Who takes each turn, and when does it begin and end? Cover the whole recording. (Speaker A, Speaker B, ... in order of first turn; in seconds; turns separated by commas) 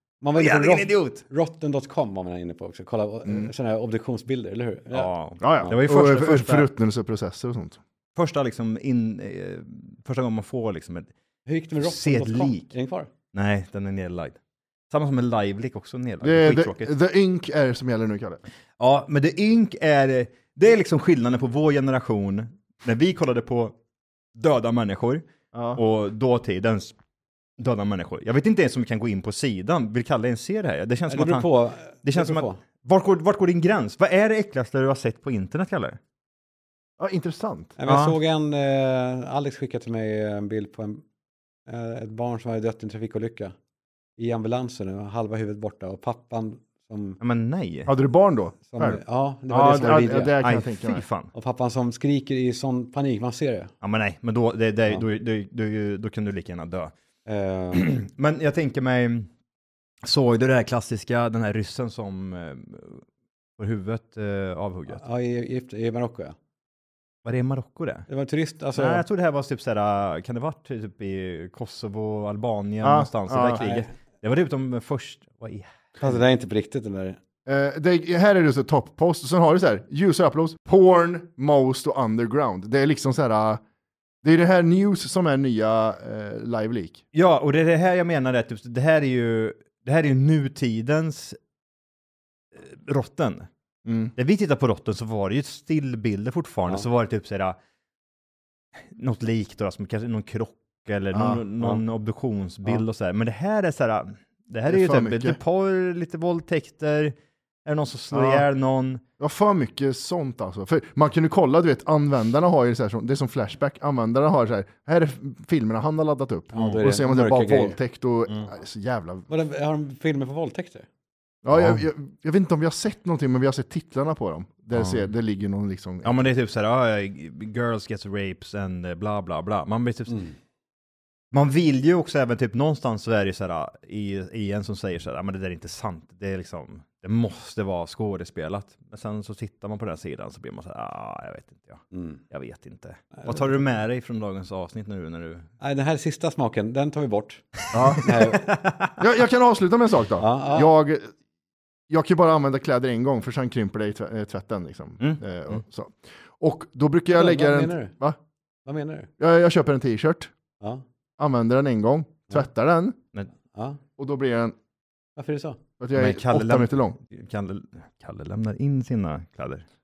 Speaker A: 0.2-5.7, Speaker B: 0.4-1.2, Speaker B: 4.9-6.7, Speaker C: 5.4-7.8, Speaker B: 8.2-11.1, Speaker A: 11.4-13.1, Speaker B: 11.8-12.7, Speaker B: 13.3-14.4, Speaker B: 14.9-16.9, Speaker C: 16.2-18.4, Speaker B: 18.8-23.8, Speaker B: 24.4-26.9, Speaker C: 25.5-25.8, Speaker B: 27.6-31.5, Speaker A: 31.1-32.6, Speaker B: 32.0-36.0, Speaker C: 37.0-37.8, Speaker A: 37.8-41.0, Speaker B: 37.8-38.1, Speaker A: 41.7-43.5, Speaker A: 44.2-47.2, Speaker B: 47.2-47.9, Speaker C: 47.9-51.0, Speaker A: 48.7-50.4, Speaker B: 50.4-51.3, Speaker A: 51.3-53.7, Speaker B: 53.8-56.9, Speaker A: 57.2-57.9, Speaker B: 57.7-59.3, Speaker B: 60.0-63.0, Speaker B: 63.6-65.0, Speaker A: 64.9-66.4, Speaker B: 67.2-68.1, Speaker A: 68.1-69.0, Speaker B: 68.7-76.1, Speaker C: 72.8-73.6, Speaker A: 73.6-73.9, Speaker A: 76.0-77.2, Speaker C: 77.5-83.6, Speaker C: 84.2-87.0, Speaker B: 87.1-91.4, Speaker B: 92.5-93.5, Speaker C: 93.8-94.1, Speaker B: 94.2-97.6, Speaker B: 98.8-107.1, Speaker C: 101.1-101.4, Speaker C: 104.7-105.4, Speaker B: 107.6-109.0, Speaker C: 108.1-108.5, Speaker C: 109.2-119.3, Speaker A: 116.5-117.8, Speaker A: 119.3-120.9, Speaker C: 121.4-126.3, Speaker B: 121.5-121.8, Speaker B: 126.0-130.3, Speaker B: 131.3-145.5, Speaker A: 141.9-142.2, Speaker A: 143.1-143.6, Speaker A: 145.6-148.5, Speaker B: 147.7-149.0, Speaker C: 147.7-148.3, Speaker C: 149.0-151.1, Speaker A: 150.2-150.7, Speaker C: 151.9-158.2, Speaker A: 157.1-157.9, Speaker A: 158.7-159.1, Speaker C: 159.2-160.3, Speaker C: 161.2-163.0, Speaker A: 163.5-163.8, Speaker C: 164.0-164.5, Speaker A: 165.2-165.6, Speaker C: 165.8-166.9, Speaker B: 165.9-169.7